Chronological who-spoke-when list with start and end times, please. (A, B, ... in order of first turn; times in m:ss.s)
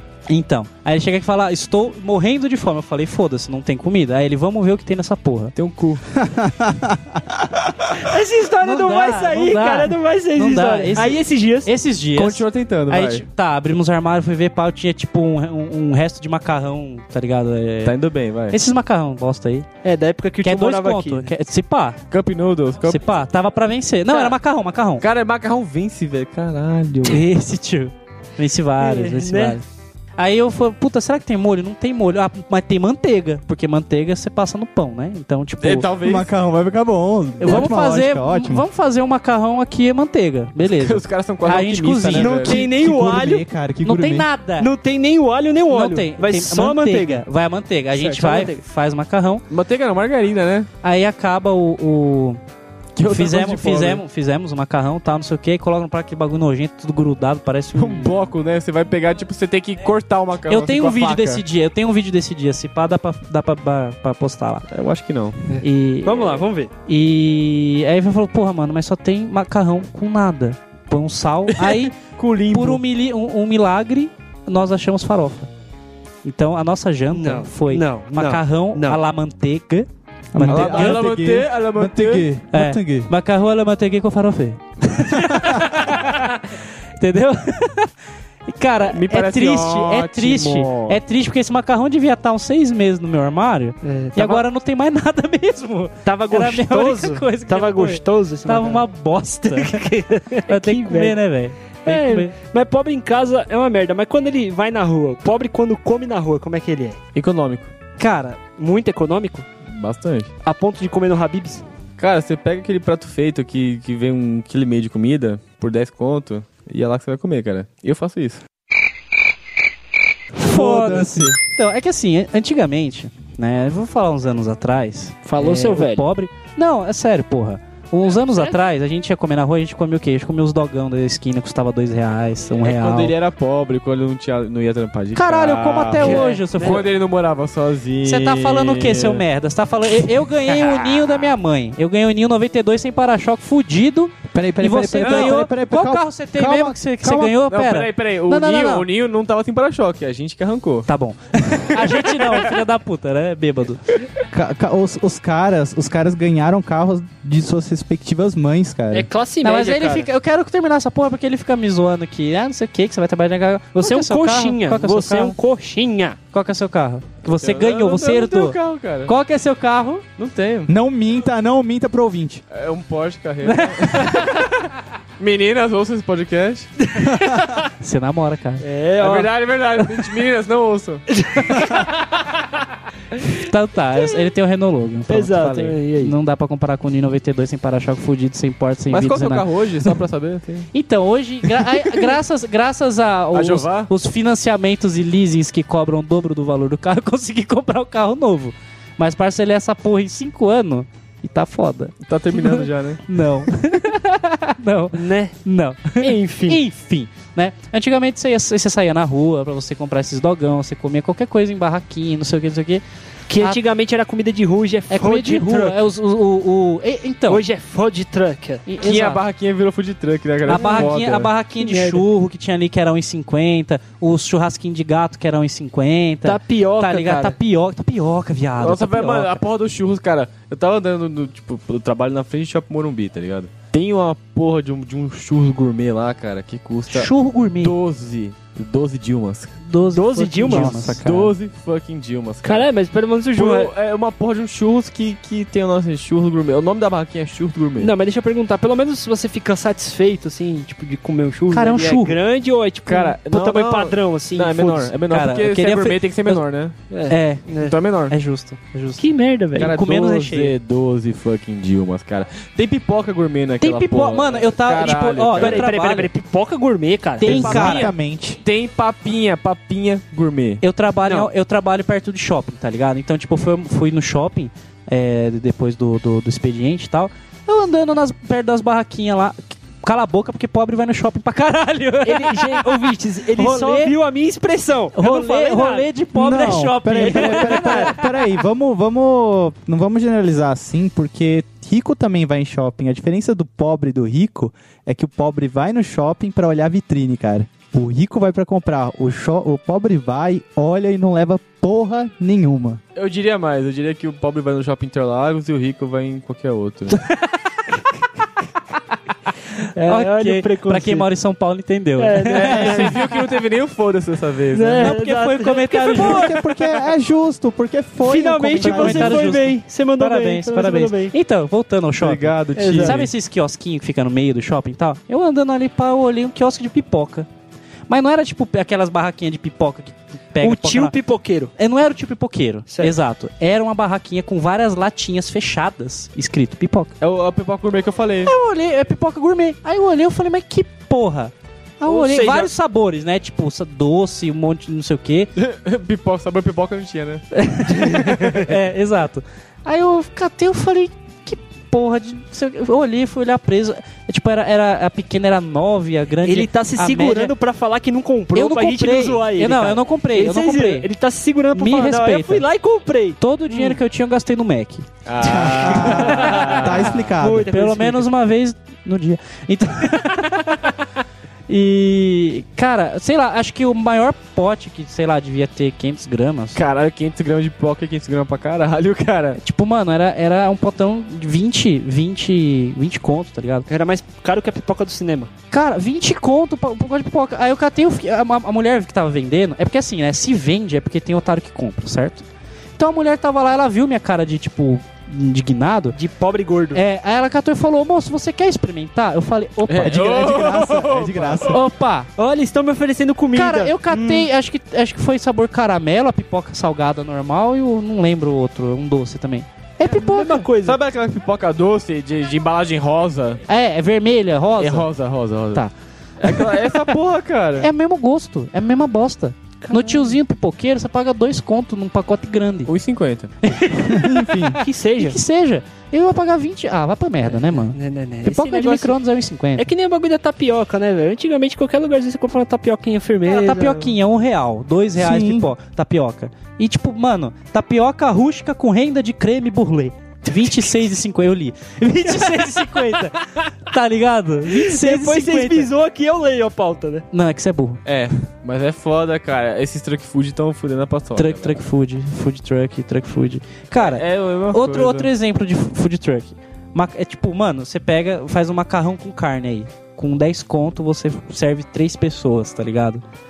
0:00.3-0:05.5 A
0:05.6-0:06.0 B
0:06.1-0:07.9 C
0:08.0-0:11.7 D
0:08.6-0:18.0 A
0:12.2-0:13.2 B
0:17.8-0:18.6 B
0:18.5-0:19.7 A
0:19.8-0:21.3 D
0:20.4-0:22.0 A
0:22.1-0:23.0 B
0:22.9-0:25.0 A
0:24.1-0:24.4 D
0:25.0-0:27.2 B
0:27.0-0:29.6 A
0:28.8-0:29.6 D
0:30.2-0:35.9 A
0:35.6-0:36.3 B
0:36.0-0:38.7 C
0:37.4-0:42.6 A
0:40.6-0:42.6 B
0:42.2-0:43.4 D
0:42.5-0:44.3 C
0:43.8-0:44.7 A
0:44.6-0:47.2 D
0:45.7-0:49.4 A
0:48.0-0:48.6 D
0:49.5-0:50.7 B
0:50.8-0:52.4 A
0:53.0-0:54.0 B
0:53.0-0:58.2 A
0:57.8-1:01.4 B
1:00.5-1:04.6 A
1:04.7-1:05.4 B
1:05.5-1:06.7 D
1:05.6-1:12.0 A
1:11.6-1:12.8 B
1:12.5-1:15.5 A
1:16.2-1:21.1 A
1:17.1-1:19.0 D
1:20.3-1:23.1 C
1:20.5-1:22.3 B
1:22.5-1:26.4 A
1:27.0-1:27.9 A
1:28.5-1:39.8 A
1:28.9-1:31.0 B
1:33.8-1:34.4 D
1:36.0-1:38.9 D
1:39.5-1:41.2 D
1:40.5-1:42.3 A
1:41.9-1:47.0 D
1:47.1-1:47.7 B
1:48.0-1:48.4 A
1:48.6-1:49.5 D
1:49.7-1:50.3 B
1:50.4-1:51.6 D
1:52.0-1:58.4 B
2:00.4-2:13.1 A
2:00.4-2:01.4 C
2:05.3-2:06.1 D
2:12.6-2:19.2 B
2:15.1-2:16.9 A
2:16.0-2:16.8 D
2:18.0-2:28.9 A
2:24.3-2:27.4 C
2:25.0-2:25.4 B
2:27.5-2:30.9 B
2:30.9-2:33.8 A
2:31.8-2:32.5 B
2:34.3-2:39.1 C
2:38.9-2:40.1 D
2:39.4-2:45.4 A
2:43.8-2:46.2 D
2:46.3-2:50.0 A
2:47.3-2:49.1 B
2:50.2-2:50.7 B
2:50.7-2:52.4 C
2:52.5-2:54.5 B
2:53.5-2:54.4 A
2:55.2-2:56.7 B
2:56.9-2:57.6 D
2:57.8-2:58.6 A
2:58.6-2:59.3 D
2:59.0-3:01.0 B
3:01.2-3:01.9 D
3:03.3-3:09.5 A
3:05.1-3:06.1 D
3:08.9-3:10.7 B
3:10.7-3:32.8 A
3:11.6-3:12.1 B
3:13.3-3:13.9 B
3:22.0-3:23.0 B
3:24.9-3:25.4 D
3:26.0-3:26.6 D
3:33.3-3:35.8 D
3:34.9-3:37.4 A
3:37.3-3:38.6 D
3:38.7-3:39.2 A
3:38.8-3:41.3 B
3:40.5-3:49.4 A
3:40.5-3:40.9 D
3:41.6-3:42.0 D
3:46.2-3:47.4 D
3:48.6-3:59.6 B
3:56.9-3:57.8 A
3:59.6-4:01.0 A
3:59.9-4:00.8 D
4:00.5-4:01.3 C
4:00.8-4:02.7 B
4:02.4-4:03.7 D
4:03.3-4:07.9 B
4:07.8-4:14.9 D
4:11.5-4:12.2 A
4:12.9-4:16.8 B
4:15.1-4:16.4 A
4:16.9-4:17.8 D
4:17.1-4:17.5 A
4:17.6-4:18.1 B
4:18.1-4:20.6 A
4:19.0-4:19.7 D
4:19.6-4:25.7 B
4:23.6-4:26.1 A
4:25.4-4:27.8 D
4:27.2-4:27.9 A
4:27.2-4:28.4 C
4:27.3-4:30.6 B
4:30.6-4:43.9 A
4:42.0-4:45.9 D
4:45.0-4:48.1 A
4:46.1-5:02.8 C
4:47.0-4:48.0 D
5:03.0-5:07.0 B
5:09.8-5:11.1 D
5:09.9-5:12.9 A
5:12.0-5:12.9 D
5:12.3-5:15.0 B
5:14.5-5:16.5 D
5:14.8-5:16.3 A
5:15.9-5:19.4 C
5:18.0-5:21.1 D
5:18.6-5:27.3 A
5:22.0-5:23.1 B
5:22.6-5:23.0 D
5:27.9-5:31.0 A
5:30.4-5:31.5 D
5:31.6-5:36.9 A
5:32.7-5:33.0 D
5:37.0-5:38.3 B
5:38.3-5:45.3 A
5:41.8-5:42.5 D
5:45.4-5:47.2 B
5:47.3-5:57.3 A
5:48.1-5:48.4 B
5:56.2-6:03.8 D
5:58.3-6:00.9 A
6:01.5-6:02.5 A
6:03.2-6:04.9 A
6:05.0-6:07.0 B
6:05.2-6:07.5 C
6:05.4-6:08.1 D
6:07.5-6:10.6 A
6:11.5-6:16.6 A
6:16.6-6:19.4 B
6:19.4-6:23.7 A
6:23.7-6:25.3 D
6:25.5-6:32.2 A
6:32.8-6:36.0 A
6:35.9-6:36.8 D
6:36.7-6:40.1 A
6:39.7-6:41.6 B
6:39.8-6:41.6 C
6:41.5-6:42.1 A
6:42.2-6:44.3 D
6:43.3-6:50.5 A
6:49.8-6:50.8 D
6:50.6-6:53.4 B
6:53.5-6:54.9 A
6:54.6-6:55.6 B
6:56.2-6:57.7 B
6:56.3-6:56.6 A
6:57.6-7:02.7 A
6:59.6-7:00.2 D
7:02.7-7:03.3 B
7:03.4-7:09.7 A
7:03.8-7:04.6 C
7:04.6-7:05.2 D
7:07.3-7:09.0 D
7:09.6-7:13.9 D
7:13.3-7:25.7 A
7:15.0-7:15.4 D
7:20.4-7:20.7 D
7:22.0-7:23.0 D
7:24.5-7:27.0 D
7:27.1-7:27.8 A
7:27.9-7:31.6 B
7:31.2-7:43.0 A
7:33.8-7:35.1 B